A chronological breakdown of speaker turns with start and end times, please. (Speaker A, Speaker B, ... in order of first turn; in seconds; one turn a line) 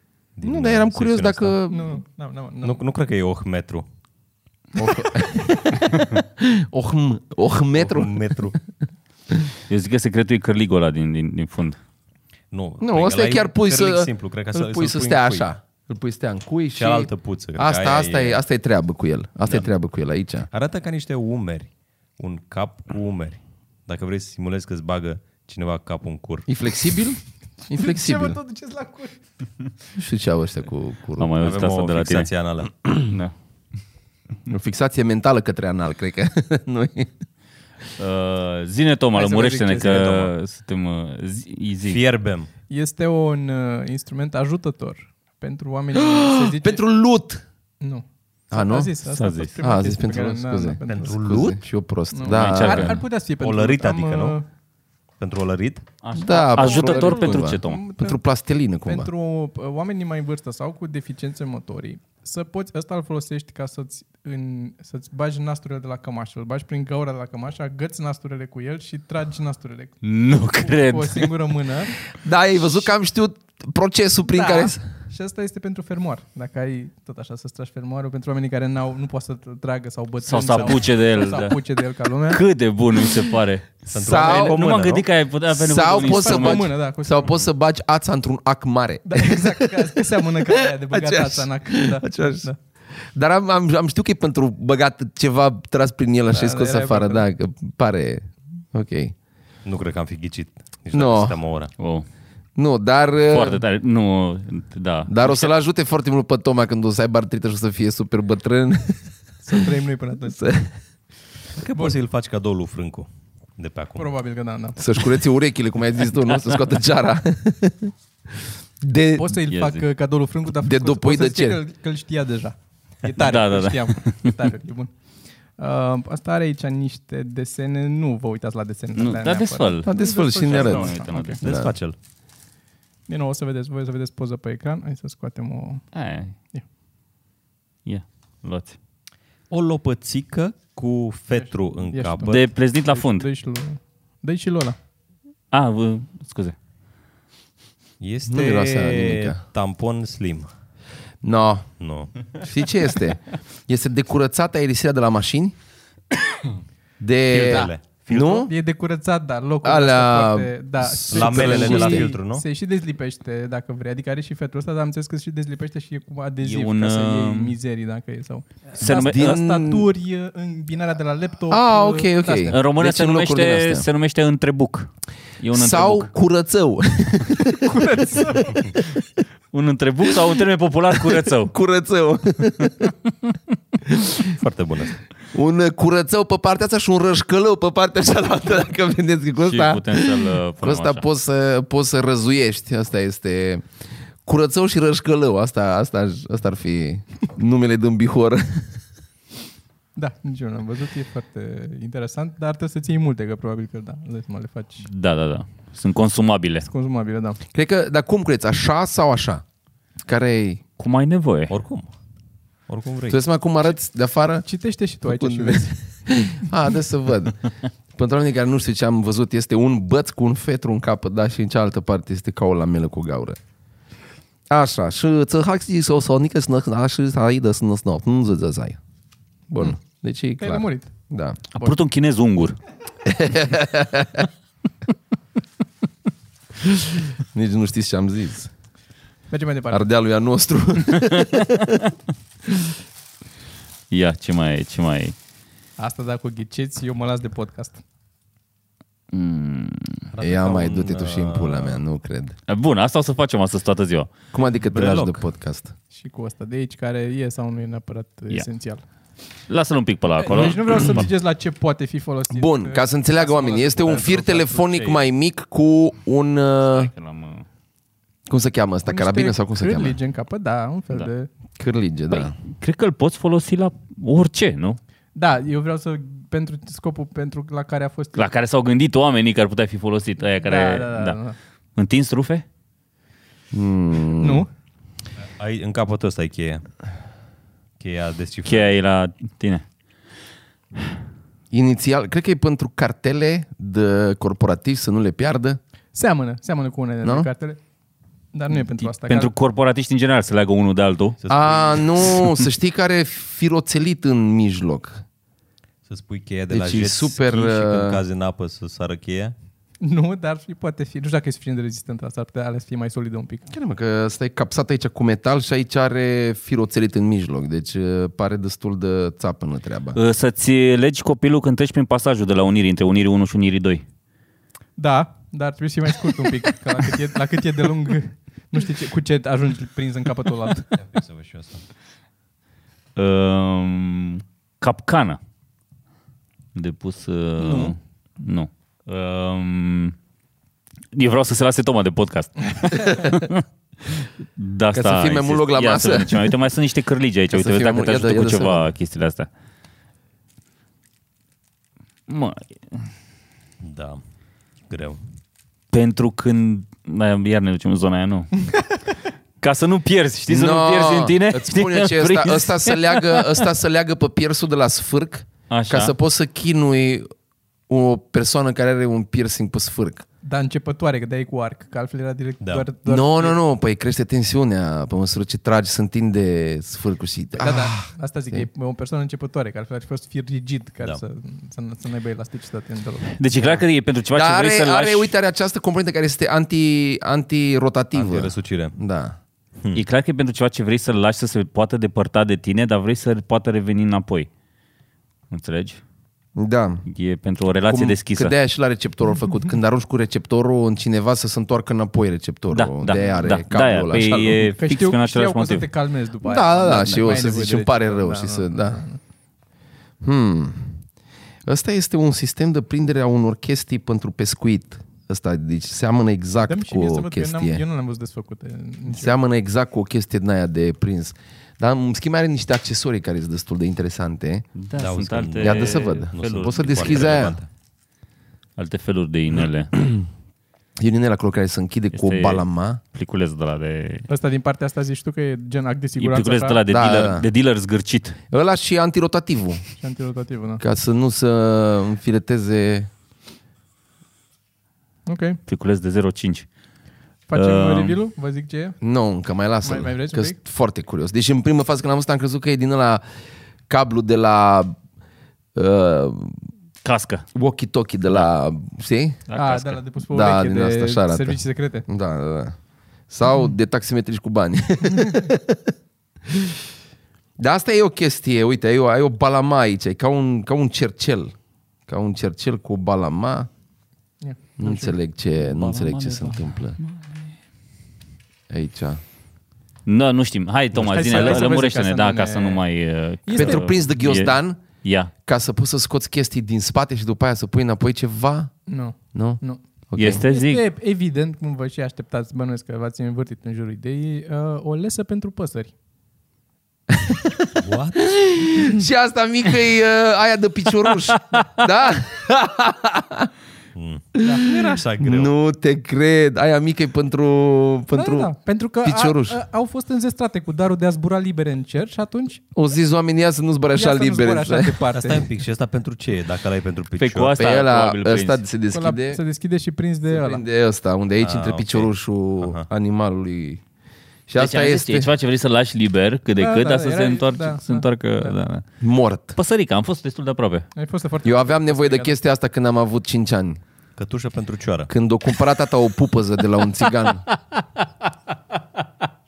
Speaker A: 0.3-1.6
Speaker B: 0.4-2.0
Speaker C: 1.7-2.8
Speaker A: 2.6-3.9
Speaker B: 4.8-8.2
Speaker A: 7.7-8.6
Speaker D: 9.7-11.8
Speaker A: 12.5-15.5
Speaker B: 12.8-20.5
Speaker A: 16.8-18.4
Speaker A: 20.5-26.5
Speaker B: 26.5-28.4
Speaker C: 27.7-29.2
Speaker B: 29.9-31.3
Speaker D: 31.2-32.3
Speaker A: 31.4-33.1
Speaker D: 33.1-33.3
Speaker B: 34.5-37.1
Speaker D: 38.0-42.0
Speaker C: 39.1-40.3
Speaker A: 39.9-40.3
Speaker A: 41.9-42.5
Speaker C: 42.7-46.8
Speaker B: 45.9-47.4
Speaker C: 47.8-51.2
Speaker B: 48.5-48.9
Speaker D: 49.0-49.5
Speaker B: 49.6-53.0
Speaker A: 50.9-51.6
Speaker C: 52.1-54.5
Speaker D: 52.3-53.0
Speaker A: 53.4-54.4
Speaker A: 55.2-55.9
Speaker D: 56.0-57.9
Speaker B: 56.1-59.1
Speaker C: 56.5-58.2
Speaker C: 58.9-70.0
Speaker D: 70.0-71.3
Speaker C: 70.6-72.1
Speaker B: 72.2-74.8
Speaker C: 74.3-82.4
Speaker D: 80.2-81.6
Speaker D: 82.3-86.7
Speaker A: 83.9-85.0
Speaker B: 83.9-84.6
Speaker B: 85.5-99.1
Speaker C: 85.9-87.3
Speaker C: 89.0-92.6
Speaker C: 96.3-97.2
Speaker A: 99.6-101.7
Speaker B: 100.9-101.4
Speaker D: 101.8-102.0
Speaker B: 102.5-103.6
Speaker D: 103.3-105.3
Speaker B: 105.1-109.7
Speaker C: 109.4-110.4
Speaker B: 110.3-110.7
Speaker A: 111.5-114.1
Speaker C: 114.0-114.8
Speaker B: 114.8-117.9
Speaker B: 118.8-119.4
Speaker C: 119.1-124.9
Speaker D: 119.5-119.8
Speaker B: 120.5-121.6
Speaker D: 123.2-124.3
Speaker C: 125.5-131.4
Speaker D: 128.9-129.9
Speaker B: 129.8-131.7
Speaker D: 130.4-131.4
Speaker A: 131.4-131.9
Speaker C: 133.1-135.8
Speaker D: 135.9-136.3
Speaker D: 137.8-138.7
Speaker A: 139.5-142.4
Speaker C: 141.3-144.8
Speaker D: 142.2-143.3
Speaker D: 145.5-146.5
Speaker A: 148.0-150.5
Speaker B: 148.3-149.4
Speaker B: 151.2-151.7
Speaker A: 151.8-152.1
Speaker B: 152.3-155.5
Speaker B: 157.0-158.5
Speaker A: 157.3-158.0
Speaker C: 157.5-172.6
Speaker B: 159.6-160.5
Speaker A: 160.8-162.4
Speaker B: 161.1-162.1
Speaker D: 166.4-167.6
Speaker D: 168.8-169.4
Speaker B: 168.8-169.9
Speaker B: 171.5-173.8
Speaker D: 172.5-176.1
Speaker B: 175.5-177.6
Speaker C: 177.5-178.8
Speaker D: 179.5-181.5
Speaker B: 181.1-182.9
Speaker B: 183.9-184.3
Speaker A: 184.3-185.0
Speaker B: 185.3-193.6
Speaker D: 189.5-191.0
Speaker B: 194.2-198.7
Speaker C: 199.9-204.9
Speaker D: 204.9-206.7
Speaker C: 206.7-207.4
Speaker B: 207.5-209.4
Speaker B: 210.0-210.6
Speaker D: 210.8-211.5
Speaker A: 211.5-211.9
Speaker A: 212.7-213.2
Speaker B: 213.1-214.4
Speaker C: 214.4-215.7
Speaker B: 215.1-223.4
Speaker B: 224.5-228.8
Speaker B: 229.5-231.4
Speaker C: 230.4-230.9
Speaker D: 231.5-232.6
Speaker B: 233.0-234.3
Speaker B: 236.7-238.5
Speaker C: 239.3-239.8
Speaker B: 239.7-241.8
Speaker D: 243.9-245.1
Speaker C: 245.8-247.8
Speaker D: 249.1-250.0
Speaker A: 250.1-251.8
Speaker B: 250.2-252.3
Speaker D: 252.5-254.1
Speaker B: 254.3-255.7
Speaker A: 254.7-255.2
Speaker C: 255.9-258.8
Speaker D: 259.5-261.1
Speaker C: 260.2-264.1
Speaker B: 262.3-266.9
Speaker D: 263.9-265.0
Speaker D: 266.6-267.4
Speaker B: 268.3-270.0
Speaker C: 268.9-271.3
Speaker B: 271.6-272.3
Speaker D: 272.1-274.8
Speaker C: 275.1-278.2
Speaker D: 278.1-281.2
Speaker C: 280.3-281.4
Speaker D: 281.8-282.4
Speaker B: 283.5-284.4
Speaker C: 284.2-284.5
Speaker A: 285.4-286.6
Speaker A: 287.8-288.7
Speaker D: 288.4-289.6
Speaker B: 291.5-295.6
Speaker C: 295.9-297.6
Speaker B: 297.0-297.3
Speaker C: 298.3-299.3
Speaker D: 298.8-301.2
Speaker A: 301.2-301.9
Speaker B: 301.3-305.0
Speaker A: 305.9-309.3
Speaker B: 306.5-308.0
Speaker C: 309.8-313.5
Speaker B: 313.5-320.0
Speaker D: 319.9-323.8
Speaker C: 324.8-330.8
Speaker A: 330.8-331.6
Speaker D: 332.9-335.2
Speaker D: 336.5-339.9
Speaker B: 337.4-337.7
Speaker D: 340.9-349.3
Speaker B: 342.9-343.1
Speaker B: 344.7-346.3
Speaker B: 347.3-348.7
Speaker D: 352.1-352.9
Speaker A: 353.6-354.0
Speaker A: 354.7-355.0
Speaker D: 355.7-358.3
Speaker D: 359.4-363.4
Speaker B: 360.3-367.1
Speaker D: 365.5-365.9
Speaker B: 367.7-370.0
Speaker C: 370.2-373.4
Speaker B: 372.9-378.4
Speaker C: 377.4-383.1
Speaker D: 383.1-385.1
Speaker B: 384.1-389.2
Speaker A: 387.9-388.8
Speaker A: 389.6-389.8
Speaker D: 389.7-394.3
Speaker D: 395.3-395.8
Speaker B: 396.4-396.9
Speaker D: 396.9-398.3
Speaker B: 397.7-404.5
Speaker D: 402.5-405.7
Speaker C: 402.9-403.2
Speaker C: 404.5-409.0
Speaker B: 406.2-408.8
Speaker B: 410.0-410.9
Speaker B: 411.4-417.6
Speaker C: 416.5-419.2
Speaker B: 418.9-424.5
Speaker D: 424.6-427.2
Speaker A: 424.8-427.5
Speaker B: 425.4-427.4
Speaker D: 428.6-429.7
Speaker B: 429.8-430.1
Speaker B: 430.8-432.8
Speaker D: 431.9-434.1
Speaker C: 434.1-436.6
Speaker D: 436.0-438.2
Speaker B: 436.7-437.2
Speaker B: 438.3-439.6
Speaker C: 439.8-440.6
Speaker B: 440.6-442.9
Speaker C: 445.1-445.4
Speaker D: 445.5-446.5
Speaker C: 447.3-448.8
Speaker D: 447.3-448.0
Speaker B: 448.8-453.0
Speaker C: 449.6-450.4
Speaker B: 453.7-454.7
Speaker B: 455.5-456.4
Speaker D: 456.8-457.2
Speaker B: 457.3-459.2
Speaker D: 459.3-459.8
Speaker C: 459.3-461.9
Speaker B: 460.1-462.5
Speaker B: 463.1-465.6
Speaker B: 467.4-471.3
Speaker B: 471.9-473.5
Speaker C: 474.2-475.0
Speaker B: 474.6-476.8
Speaker D: 475.4-477.3
Speaker B: 478.5-479.0
Speaker D: 479.9-485.1
Speaker A: 480.7-481.4
Speaker C: 480.8-482.6
Speaker C: 483.2-483.6
Speaker B: 483.4-484.6
Speaker B: 485.2-488.5
Speaker C: 488.7-489.6
Speaker B: 489.1-490.2
Speaker D: 490.0-490.6
Speaker C: 490.2-495.7
Speaker B: 496.9-503.3
Speaker A: 497.6-498.0
Speaker A: 503.7-505.3
Speaker B: 504.1-508.3
Speaker C: 504.2-504.8
Speaker C: 507.9-512.4
Speaker B: 508.8-509.4
Speaker B: 512.5-514.8
Speaker C: 513.7-515.3
Speaker A: 514.9-517.4
Speaker D: 517.0-518.4
Speaker B: 517.4-519.2
Speaker C: 518.7-520.4
Speaker B: 520.1-523.6
Speaker A: 521.2-522.7
Speaker B: 524.3-525.1
Speaker D: 524.4-528.6
Speaker C: 526.4-528.3
Speaker B: 528.8-529.4
Speaker D: 529.4-530.7
Speaker C: 530.8-532.1
Speaker B: 531.2-533.6
Speaker A: 534.0-534.9
Speaker B: 534.9-537.2
Speaker D: 537.3-537.6